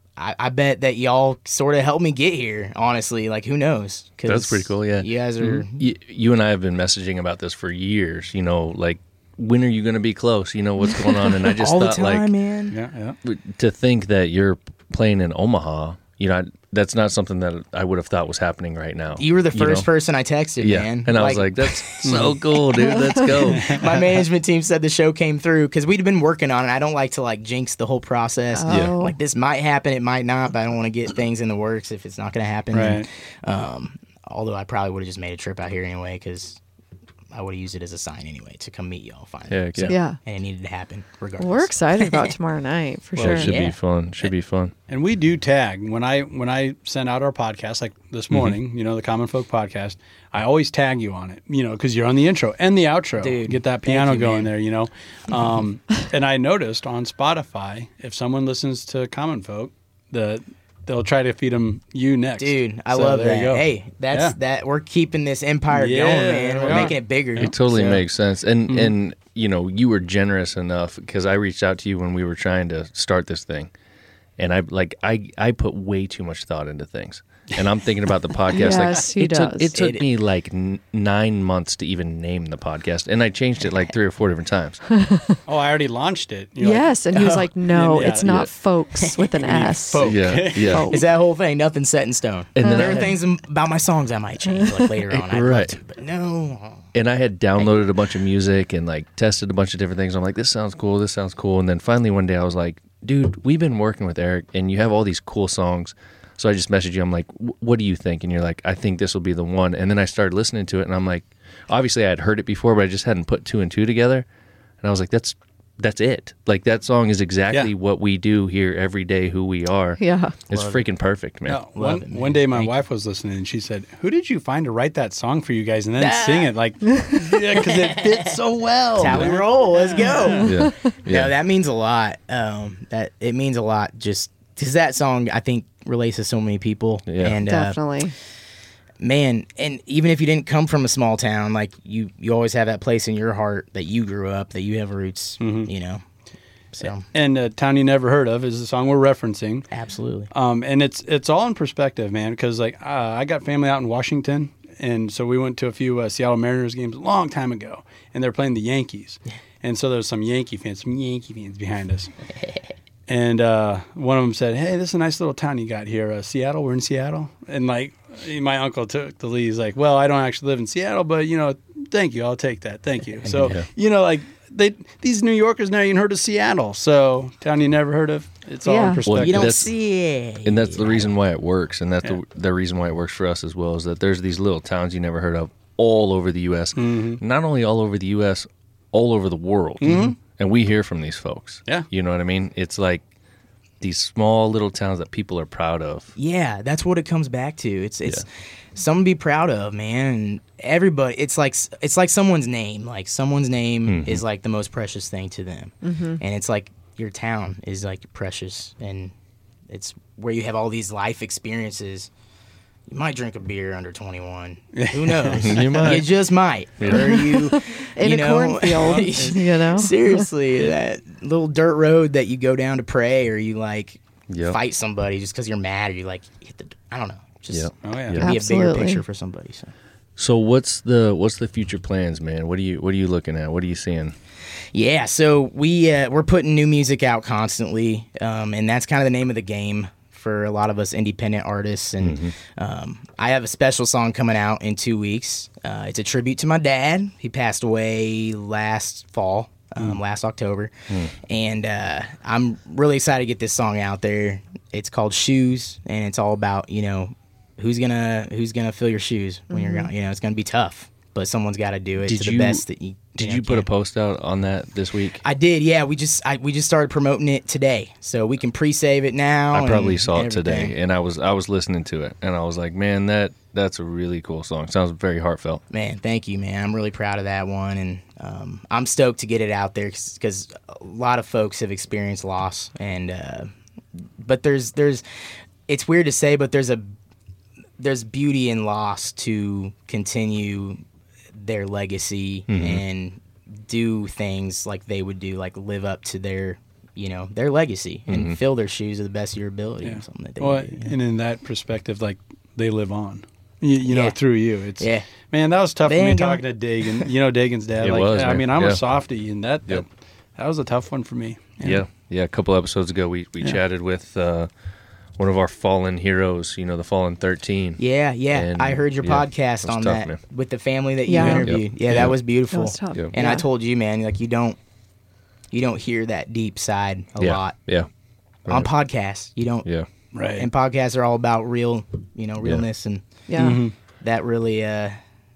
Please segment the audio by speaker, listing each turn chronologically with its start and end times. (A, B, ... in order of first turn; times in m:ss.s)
0:00.2-0:05.9 A
0:04.3-0:12.3 B
0:11.5-0:12.8 A
0:12.7-0:13.2 C
0:13.2-0:19.9 B
0:19.2-0:22.3 A
0:20.6-0:23.8 B
0:22.0-0:22.4 C
0:22.8-0:23.4 D
0:22.9-0:36.6 A
0:23.5-0:24.1 C
0:28.5-0:29.2 D
0:28.7-0:28.9 B
0:32.7-0:33.0 C
0:37.3-0:42.3 A
0:39.5-0:39.9 B
0:39.9-0:40.2 D
0:41.4-0:43.6 D
0:43.2-0:44.7 B
0:43.2-0:43.8 A
0:44.9-1:04.3 C
0:48.3-0:48.6 B
0:53.2-0:54.5 A
1:02.4-1:07.5 A
1:05.7-1:08.0 C
1:06.7-1:13.7 B
1:08.7-1:08.9 C
1:14.4-1:24.8 B
1:18.5-1:19.7 D
1:19.7-1:20.0 A
1:25.0-1:25.3 D
1:25.4-1:26.9 C
1:26.6-1:31.0 D
1:27.1-1:27.5 A
1:27.7-1:28.3 C
1:28.2-1:28.5 B
1:29.0-1:36.9 A
1:29.4-1:30.8 C
1:30.0-1:30.9 B
1:32.6-1:33.1 B
1:32.6-1:33.0 D
1:35.1-1:35.8 B
1:36.9-1:54.2 B
1:54.8-2:01.6 B
2:00.0-2:00.3 D
2:00.5-2:00.8 A
2:01.5-2:10.5 C
2:01.7-2:02.7 A
2:06.0-2:06.5 A
2:07.6-2:08.3 A
2:09.0-2:17.8 A
2:09.0-2:09.4 B
2:10.0-2:10.9 D
2:10.4-2:11.3 B
2:17.1-2:17.4 B
2:17.4-2:18.1 D
2:19.0-2:26.0 A
2:25.4-2:25.7 C
2:26.7-2:27.0 A
2:27.1-2:29.7 C
2:29.7-2:30.3 A
2:30.3-2:42.1 C
2:43.1-2:59.6 C
2:53.3-2:53.6 B
2:58.6-2:59.0 D
2:59.0-2:59.7 B
2:59.2-3:01.1 A
3:00.4-3:13.0 B
3:06.8-3:07.2 C
3:09.8-3:10.2 C
3:13.8-3:16.1 B
3:16.2-3:29.1 A
3:23.8-3:24.2 B
3:25.8-3:26.2 D
3:29.7-3:32.1 A
3:32.9-3:49.7 A
3:34.7-3:36.0 C
3:35.3-3:36.1 B
3:36.8-3:37.1 B
3:36.9-3:40.3 D
3:38.8-3:39.3 C
3:44.3-3:44.6 B
3:47.5-3:48.3 B
3:47.8-3:48.2 C
3:48.2-3:49.0 D
3:50.2-3:54.1 B
3:54.7-4:23.6 A
4:02.0-4:02.3 B
4:19.5-4:19.9 D
4:22.0-4:22.6 B
4:23.2-4:25.2 B
4:25.2-4:30.7 A
4:29.5-4:35.6 B
4:35.7-4:43.5 A
4:44.2-4:45.0 A
4:45.7-4:46.9 A
4:47.8-4:50.8 A
4:51.3-5:00.9 A
4:52.5-4:52.8 B
4:58.1-4:58.4 B
4:59.8-5:11.8 C
5:03.9-5:04.2 A
5:04.8-5:05.1 A
5:05.8-5:07.1 A
5:07.8-5:08.8 B
5:11.6-5:14.5 B
5:15.2-5:17.8 B
5:17.8-5:24.6 A
5:18.3-5:20.2 B
5:21.0-5:21.5 D
5:21.2-5:21.4 C
5:21.4-5:22.2 B
5:22.5-5:23.4 D
5:25.5-5:27.6 A
5:27.2-5:27.9 B
5:28.4-5:28.7 B
5:28.5-5:29.7 A
5:30.1-5:30.5 C
5:30.4-5:35.0 A
5:33.3-5:33.6 D
5:33.4-5:33.7 C